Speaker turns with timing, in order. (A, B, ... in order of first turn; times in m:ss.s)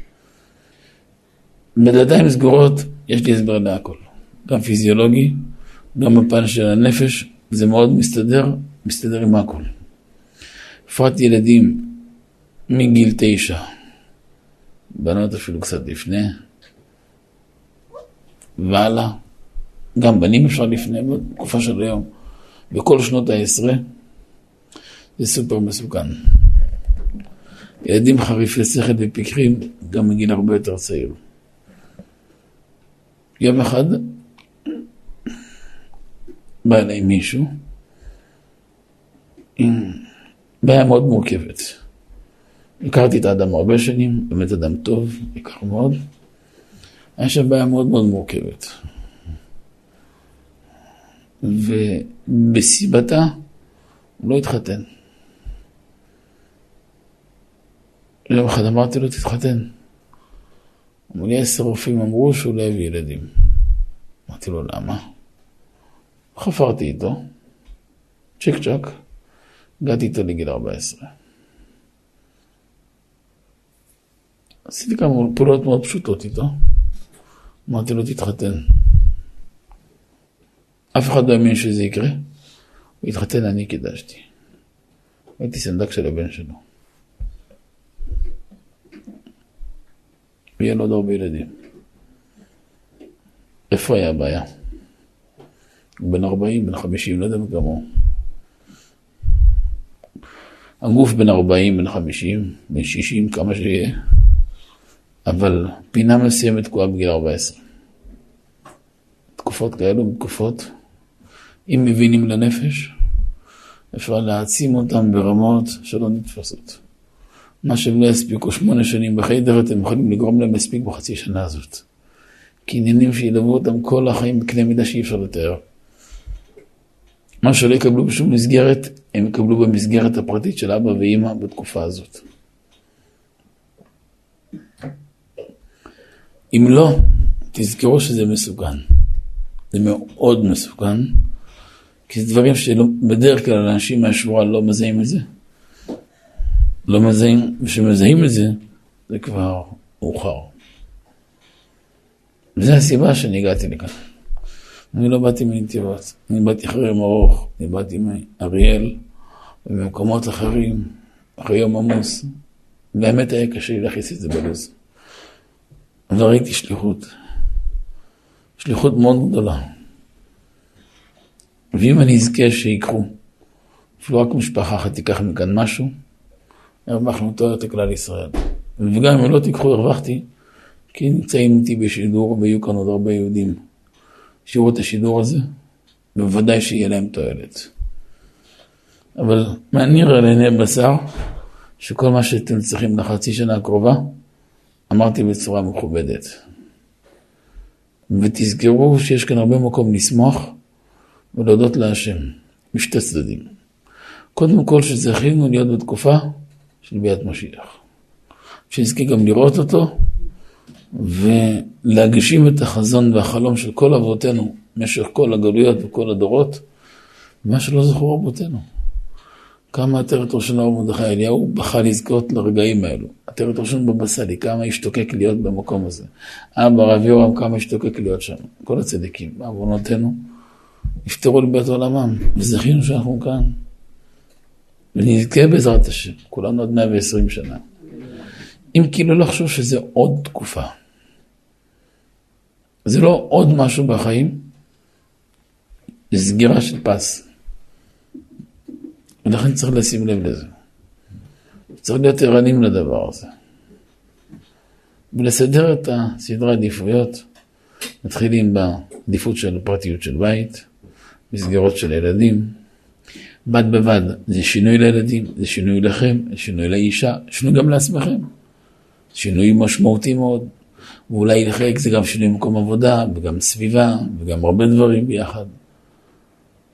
0:01.8-0:09.7 A
0:10.9-0:12.0 A
0:12.7-0:13.6 A
0:15.0-0:16.3 A
0:18.6-0:19.2 A
0:20.0-0:22.1 A
0:22.7-0:23.8 A
0:25.2-0:26.2 A
0:27.8-0:31.2 A
0:33.4-0:34.2 A
0:36.6-0:37.5 A
0:39.6-0:40.0 A
0:40.6-0:41.8 A
0:42.8-0:46.0 A
0:47.2-0:48.8 A
0:51.4-0:53.4 A
0:54.2-0:54.9 A
0:58.3-0:59.7 A
1:01.1-1:03.3 A
1:04.3-1:05.0 A
1:06.4-1:07.2 A
1:08.4-1:08.9 A
1:09.8-1:11.1 A
1:14.7-1:16.5 A
1:17.7-1:18.6 A
1:20.9-1:22.2 A
1:23.0-1:24.3 A
1:25.4-1:26.6 A
1:30.6-1:31.5 A
1:33.7-1:34.5 A
1:36.0-1:37.8 A
1:40.8-1:44.0 A
1:45.3-1:47.6 A
1:49.4-1:50.7 A
1:51.7-1:53.0 A
1:53.9-1:56.8 A
1:57.6-2:01.8 A
2:02.7-2:05.6 A
2:07.4-2:12.2 A
2:16.5-2:17.0 A
2:17.5-2:18.8 A
2:19.7-2:21.2 A
2:22.1-2:25.2 A
2:26.9-2:30.5 A
2:32.6-2:34.0 A
2:34.9-2:39.0 A
2:39.6-2:42.3 A
2:42.9-2:44.7 A
2:46.1-2:47.1 A
2:48.6-2:49.6 A
2:51.7-2:53.1 A
2:54.0-2:55.9 A
2:56.9-3:00.2 A
3:00.9-3:03.6 A
3:04.5-3:05.5 A
3:06.2-3:07.7 A
3:09.2-3:11.1 A
3:11.8-3:14.2 A
3:14.9-3:16.4 A
3:18.1-3:20.6 A
3:21.3-3:23.5 A
3:24.4-3:27.8 A
3:28.7-3:29.9 A
3:30.9-3:36.6 A
3:37.4-3:38.6 A
3:39.7-3:50.2 A
3:51.0-3:53.6 A
3:54.9-3:57.6 A
3:58.7-4:00.7 A
4:02.9-4:04.5 A
4:06.1-4:07.2 A
4:09.2-4:10.5 A
4:11.8-4:13.3 A
4:15.1-4:17.2 A
4:18.0-4:20.7 A
4:21.3-4:22.6 A
4:23.5-4:28.3 A
4:29.1-4:30.5 A
4:31.1-4:35.5 A